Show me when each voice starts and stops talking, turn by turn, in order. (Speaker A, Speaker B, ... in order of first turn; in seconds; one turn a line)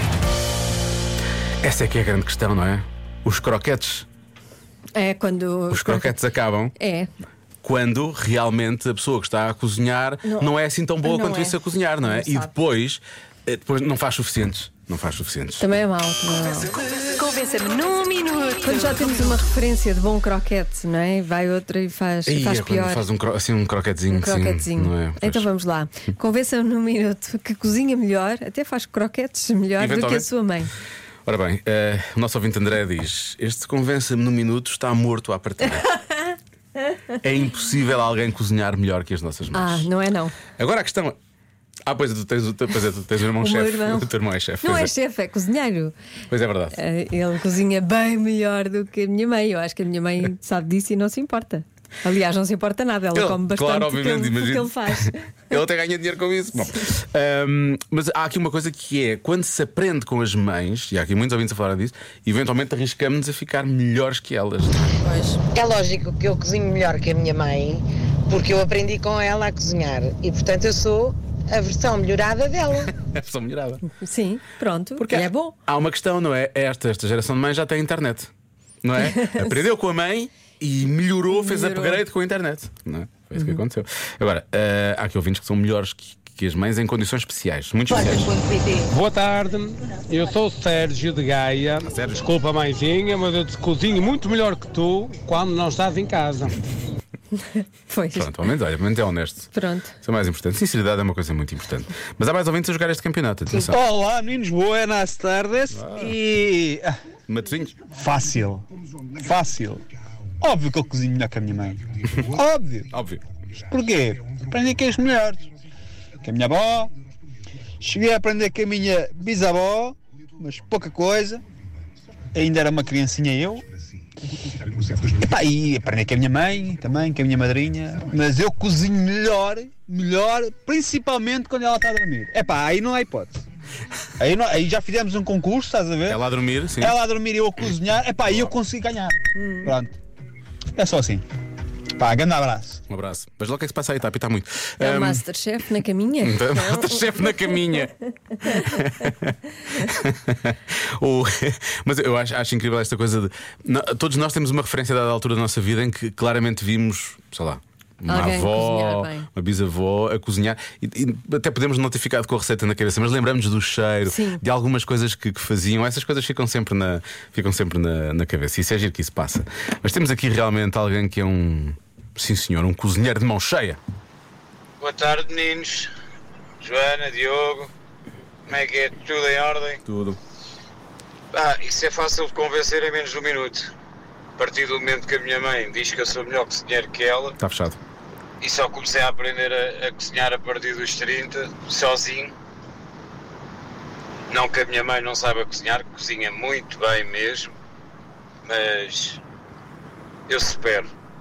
Speaker A: 1.6-4.1
Speaker B: 4.9-6.2
Speaker A: 5.7-6.7
Speaker B: 6.8-7.1
Speaker A: 7.6-15.7
Speaker B: 10.2-12.5
Speaker B: 15.6-23.1
Speaker A: 22.3-25.4
Speaker B: 24.1-30.7
Speaker A: 29.8-30.3
Speaker A: 31.2-35.8
Speaker B: 35.7-36.4
Speaker A: 37.2-39.8
Speaker B: 39.5-40.4
Speaker A: 40.6-41.1
Speaker A: 41.8-44.9
Speaker B: 43.4-44.1
Speaker B: 44.6-45.9
Speaker A: 46.3-46.8
Speaker B: 46.7-55.2
Speaker A: 53.1-65.0
Speaker B: 65.0-65.4
Speaker C: 65.4-72.9
Speaker A: 72.8-73.8
Speaker B: 73.9-75.5
Speaker A: 75.0-78.3
Speaker A: 78.8-88.4
Speaker B: 79.0-79.5
Speaker B: 81.3-82.0
Speaker C: 88.5-88.8
Speaker D: 88.9-96.5
Speaker A: 91.8-92.3
Speaker B: 97.9-98.4
Speaker A: 98.1-99.5
Speaker B: 99.5-99.9
Speaker A: 100.0-103.8
Speaker E: 103.6-106.9
Speaker A: 105.7-106.1
Speaker A: 107.3-107.7
Speaker E: 107.9-108.6
Speaker E: 109.2-109.8
Speaker E: 110.4-112.9
Speaker A: 112.9-113.2
Speaker E: 113.7-115.4
Speaker E: 116.2-116.9
Speaker E: 117.8-121.4
Speaker E: 122.3-123.6
Speaker E: 124.8-133.4
Speaker E: 134.2-136.2
Speaker A: 136.1-136.9
Speaker E: 136.8-139.9
Speaker A: 138.3-138.5
Speaker B: 139.4-139.7
Speaker E: 140.8-141.2
Speaker E: 141.9-142.8
Speaker A: 142.9-145.2
Speaker B: 144.8-147.9
Speaker A: 146.2-173.8
Speaker B: 148.4-148.7
Speaker B: 158.1-159.3
Speaker B: 164.1-164.4
Speaker F: 174.8-175.9
Speaker F: 176.6-177.7
Speaker F: 178.5-179.8
Speaker A: 179.8-180.2
Speaker F: 181.3-183.7
Speaker F: 184.4-187.3
Speaker A: 187.4-187.8
Speaker F: 188.4-192.3
Speaker F: 194.3-197.5
Speaker F: 198.4-199.2
Speaker F: 200.3-200.9